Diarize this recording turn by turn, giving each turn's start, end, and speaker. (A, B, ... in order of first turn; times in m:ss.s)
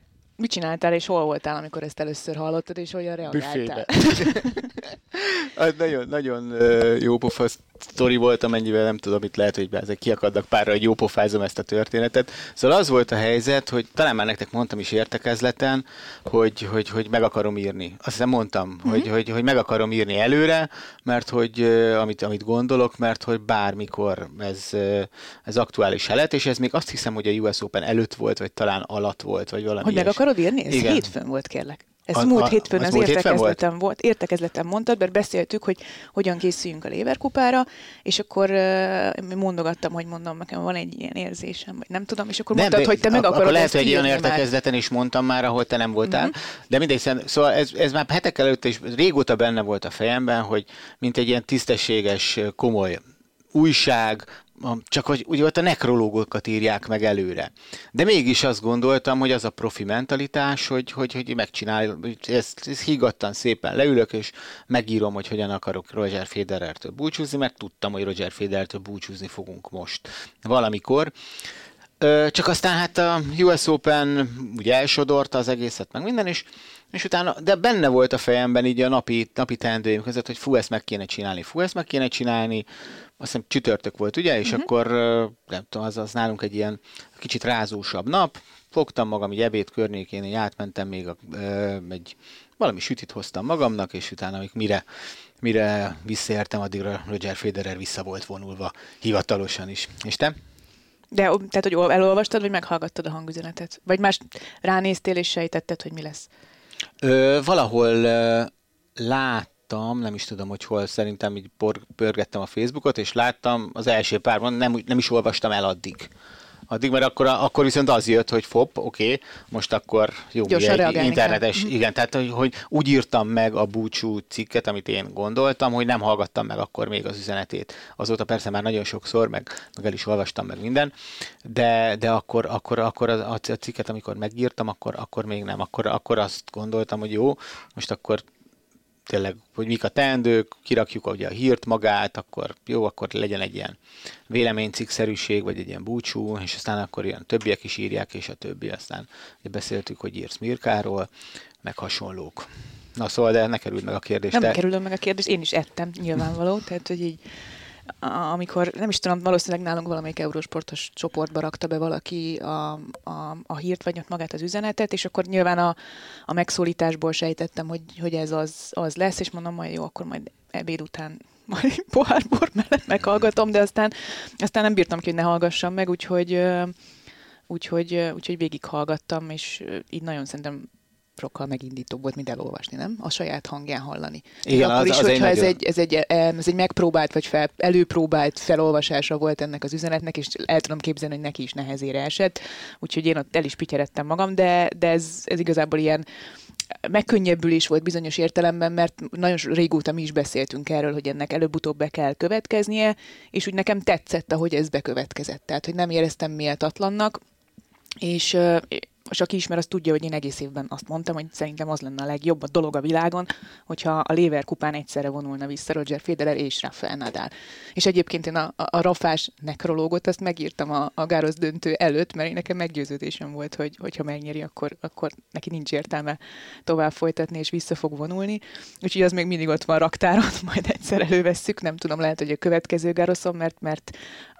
0:00.4-0:04.6 A
0:03.3-0:31.1 B
0:29.8-0:44.4 A
0:32.1-0:33.6 B
0:42.5-0:53.0 B
0:46.0-0:46.3 A
0:53.5-1:11.1 B
1:12.0-1:22.6 B
1:23.2-1:34.8 B
1:35.4-1:40.3 B
1:41.1-1:46.3 A
1:47.0-1:56.1 B
1:56.7-2:10.9 B
2:00.5-2:01.7 A
2:11.4-2:18.2 B
2:19.1-2:23.8 B
2:24.3-2:31.1 B
2:31.6-2:34.6 B
2:34.3-2:37.2 A
2:38.0-2:45.8 A
2:46.3-2:56.7 A
2:57.5-3:16.0 A
3:04.4-3:05.6 B
3:16.8-3:27.2 A
3:28.0-3:54.0 A